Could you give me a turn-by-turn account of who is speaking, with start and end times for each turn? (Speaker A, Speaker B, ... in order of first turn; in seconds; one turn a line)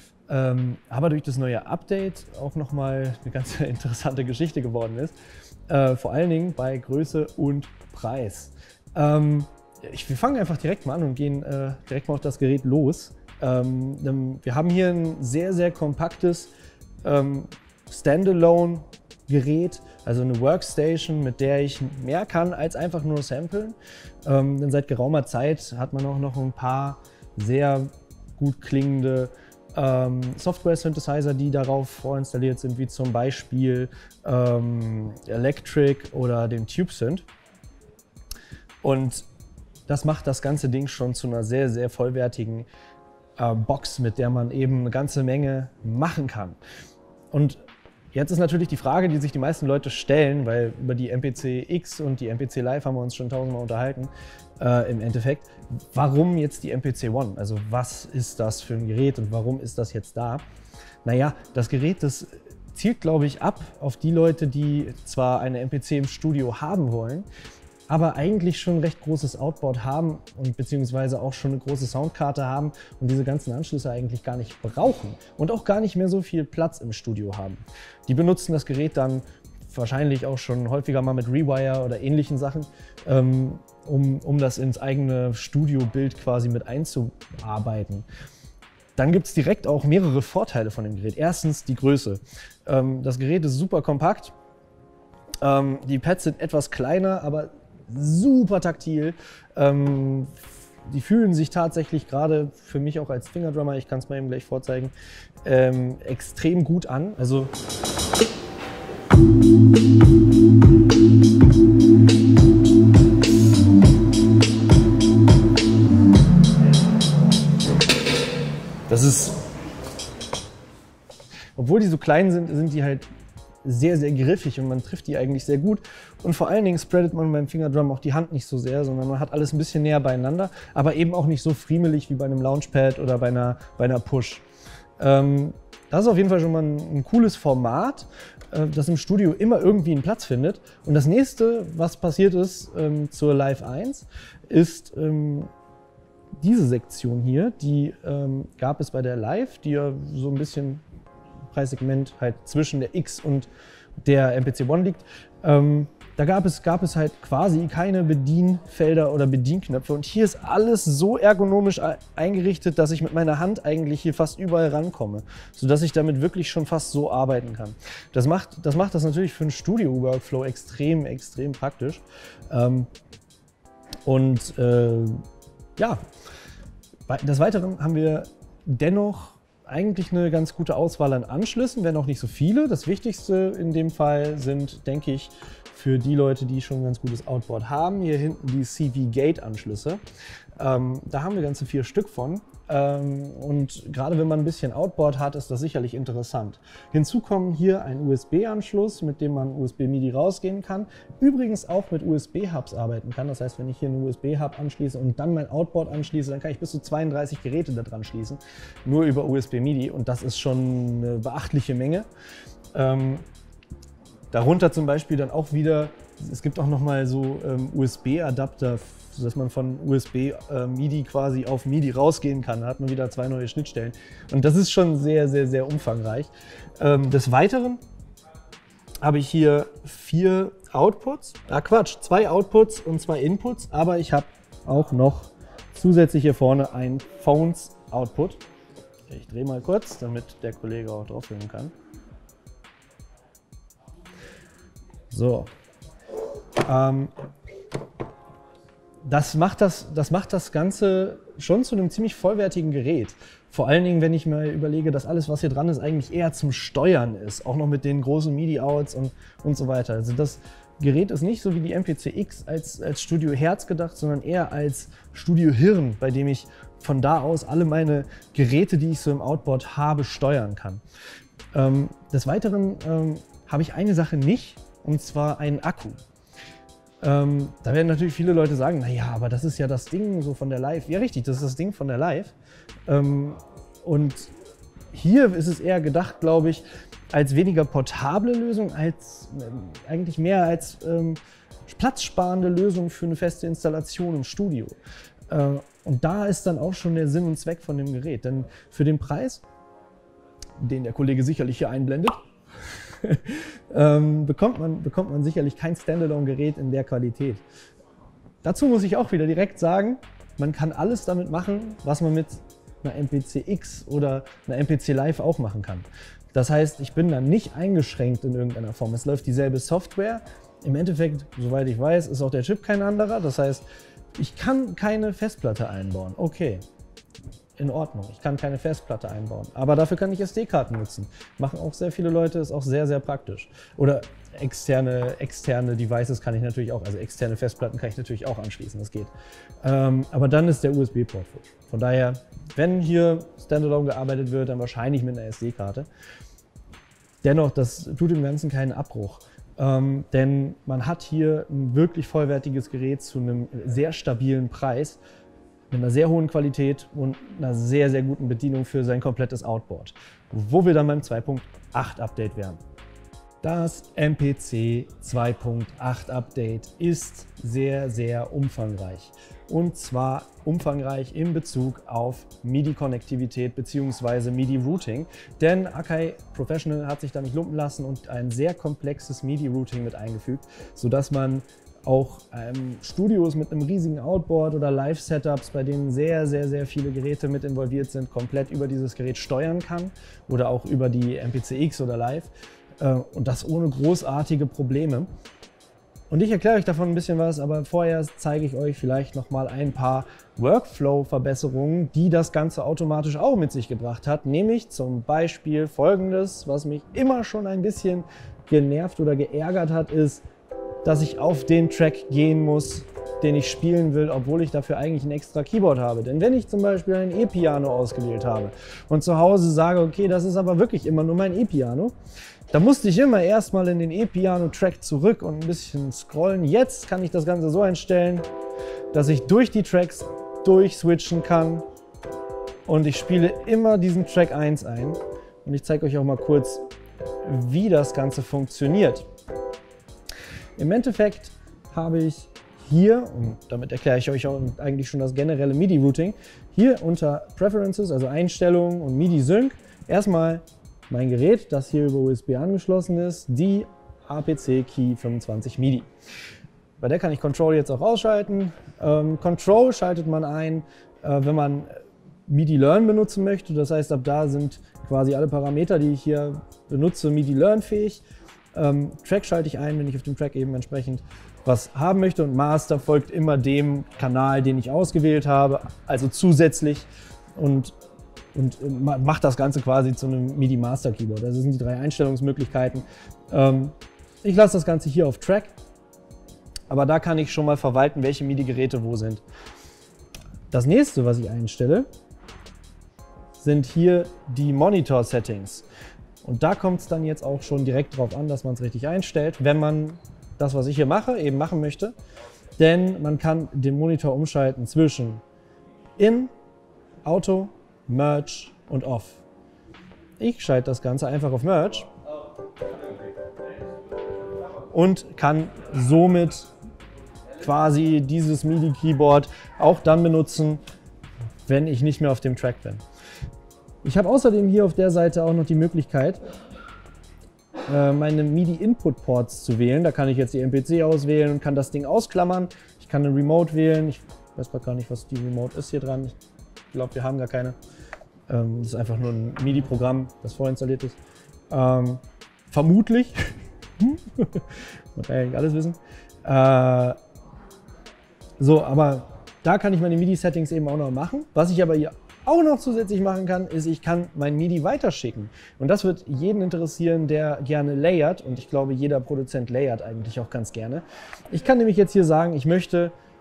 Speaker A: 0.3-5.2
Speaker A: 5.7-16.5
Speaker A: 17.0-37.3
Speaker A: 38.8-39.3
Speaker A: 39.9-42.7
Speaker A: 43.4-46.6
Speaker A: 47.3-47.6
Speaker A: 48.1-60.4
Speaker A: 61.0-67.3
Speaker A: 67.9-88.1
Speaker A: 89.0-94.3
Speaker A: 95.4-104.9
Speaker A: 105.4-107.5
Speaker A: 118.9-119.4
Speaker A: 121.6-123.1
Speaker A: 123.6-134.4
Speaker A: 135.0-145.5
Speaker A: 146.4-150.8
Speaker A: 151.5-153.5
Speaker A: 154.0-172.9
Speaker A: 174.1-175.2
Speaker A: 175.8-176.0
Speaker A: 177.1-190.0
Speaker A: 190.6-212.1
Speaker A: 212.7-213.3
Speaker A: 214.3-227.8
Speaker A: 229.0-238.4
Speaker A: 239.1-241.7
Speaker A: 245.1-245.5
Speaker A: 246.7-247.1
Speaker A: 249.0-270.8
Speaker A: 271.5-276.0
Speaker A: 277.0-282.3
Speaker A: 282.9-284.3
Speaker A: 284.9-294.8
Speaker A: 295.3-299.4
Speaker A: 300.6-302.2
Speaker A: 302.7-307.4
Speaker A: 308.4-323.6
Speaker A: 324.2-326.6
Speaker A: 327.6-339.1
Speaker A: 339.6-345.9
Speaker A: 347.2-355.0
Speaker A: 355.7-362.6
Speaker A: 363.4-395.1
Speaker A: 396.1-410.2
Speaker A: 410.8-421.9
Speaker A: 422.5-428.3
Speaker A: 428.9-431.6
Speaker A: 432.7-436.7
Speaker A: 437.2-439.1
Speaker A: 440.6-455.9
Speaker A: 456.8-461.7
Speaker A: 462.3-468.0
Speaker A: 468.5-477.7
Speaker A: 478.3-485.5
Speaker A: 486.7-489.2
Speaker A: 490.5-491.9
Speaker A: 493.4-495.6
Speaker A: 496.2-501.9
Speaker A: 502.6-505.2
Speaker A: 506.0-506.3
Speaker A: 507.1-509.2
Speaker A: 510.2-511.9
Speaker A: 514.7-516.5
Speaker A: 517.4-520.6
Speaker A: 521.5-522.8
Speaker A: 523.8-526.2
Speaker A: 527.7-536.2
Speaker A: 536.7-537.6
Speaker A: 538.3-541.0
Speaker A: 541.5-547.0
Speaker A: 548.4-562.9